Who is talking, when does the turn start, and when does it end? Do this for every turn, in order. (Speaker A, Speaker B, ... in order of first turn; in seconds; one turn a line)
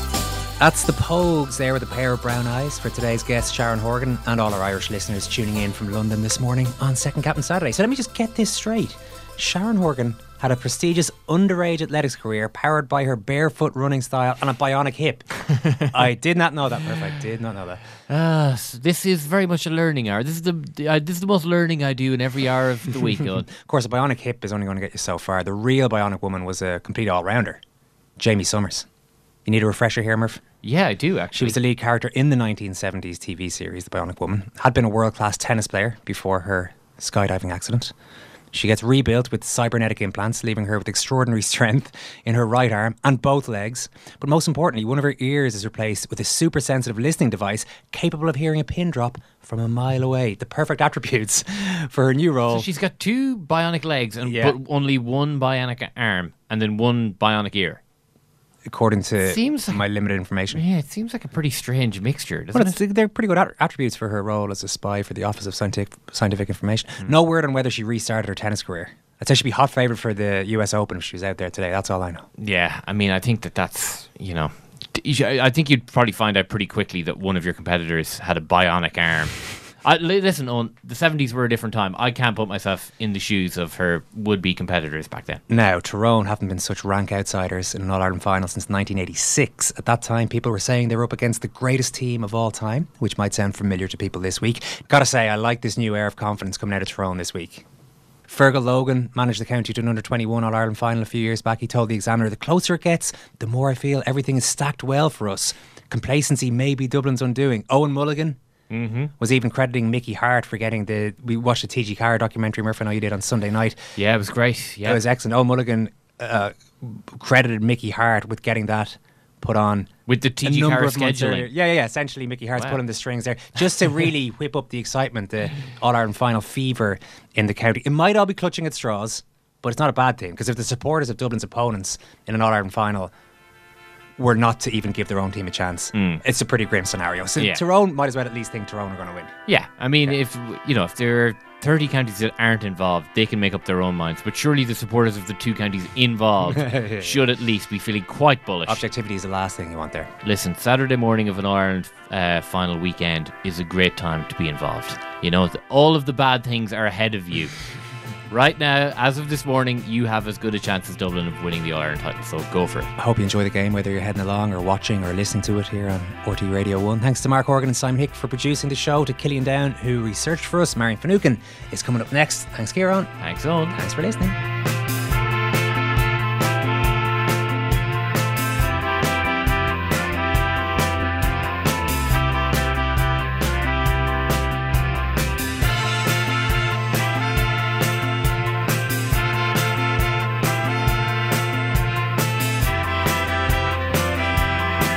Speaker A: 0.6-17.8
Speaker B: 18.1-23.5
Speaker A: 23.5-27.6
Speaker A: 28.2-28.9
Speaker A: 29.4-30.4
Speaker B: 30.6-31.6
Speaker A: 31.3-37.9
Speaker A: 38.5-52.7
Speaker B: 52.5-57.8
Speaker A: 54.2-54.5
Speaker A: 58.6-60.6
Speaker B: 59.2-59.8
Speaker B: 60.5-62.8
Speaker A: 62.5-72.3
Speaker B: 72.4-85.4
Speaker A: 85.5-97.6
Speaker A: 98.3-108.4
Speaker B: 108.7-109.1
Speaker A: 109.2-114.0
Speaker B: 114.0-115.0
Speaker A: 114.8-133.1
Speaker B: 120.1-121.5
Speaker A: 134.2-139.4
Speaker B: 135.9-136.2
Speaker B: 137.4-137.6
Speaker B: 139.5-148.8
Speaker A: 146.5-147.2
Speaker A: 148.7-150.1
Speaker B: 150.2-157.7
Speaker B: 158.3-162.9
Speaker A: 163.0-173.2
Speaker B: 173.2-173.8
Speaker A: 173.7-174.4